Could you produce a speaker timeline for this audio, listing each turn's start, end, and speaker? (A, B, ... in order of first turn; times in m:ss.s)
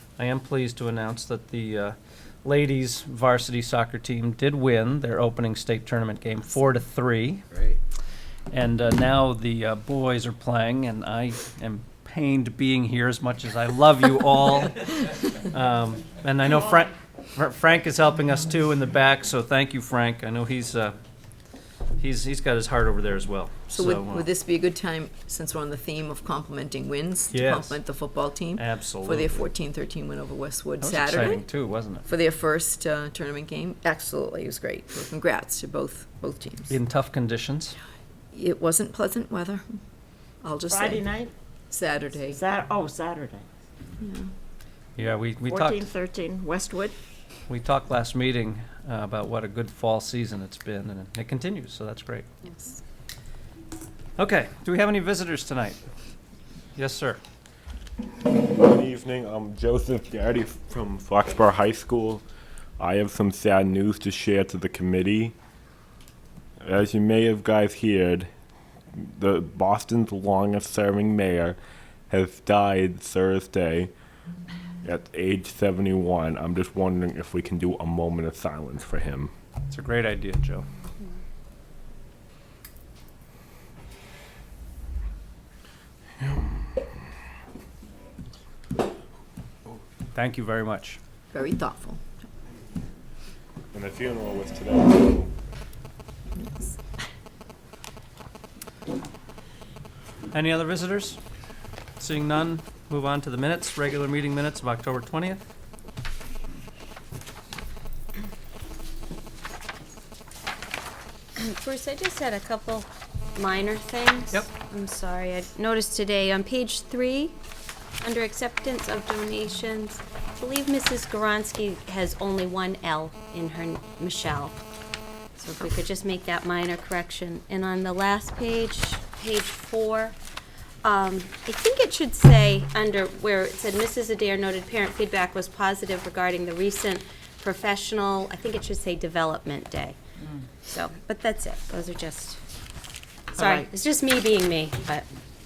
0:00.2-0:07.4 A
0:08.5-0:21.0 A
0:22.0-0:24.3 A
0:23.7-0:36.8 B
0:27.3-0:27.8 A
0:28.5-0:29.4 A
0:30.8-0:32.1 A
0:36.7-0:37.8 A
0:38.3-0:39.7 B
0:40.4-0:41.1 B
0:40.7-0:41.3 C
0:41.7-0:42.4 B
0:42.2-0:43.5 C
0:44.0-0:44.3 B
0:45.0-0:45.9 A
0:45.5-0:47.0 C
0:47.5-0:52.3 A
0:52.5-0:52.8 D
0:54.2-0:55.8 A
0:56.7-0:57.2 A
0:58.3-1:02.2 E
1:02.8-1:05.4 E
1:06.6-1:08.3 E
1:08.9-1:11.6 E
1:12.1-1:13.9 E
1:14.8-1:19.3 E
1:19.7-1:20.7 A
1:30.1-1:31.0 A
1:31.3-1:32.0 B
1:33.7-1:35.3 E
1:36.4-1:36.8 B
1:40.3-1:41.2 A
1:42.0-1:45.4 A
1:51.4-1:57.4 D
1:58.0-2:04.6 D
2:05.4-2:10.2 D
2:10.8-2:20.0 D
2:20.6-2:22.4 D
2:23.3-2:25.1 D
2:23.4-2:23.7 C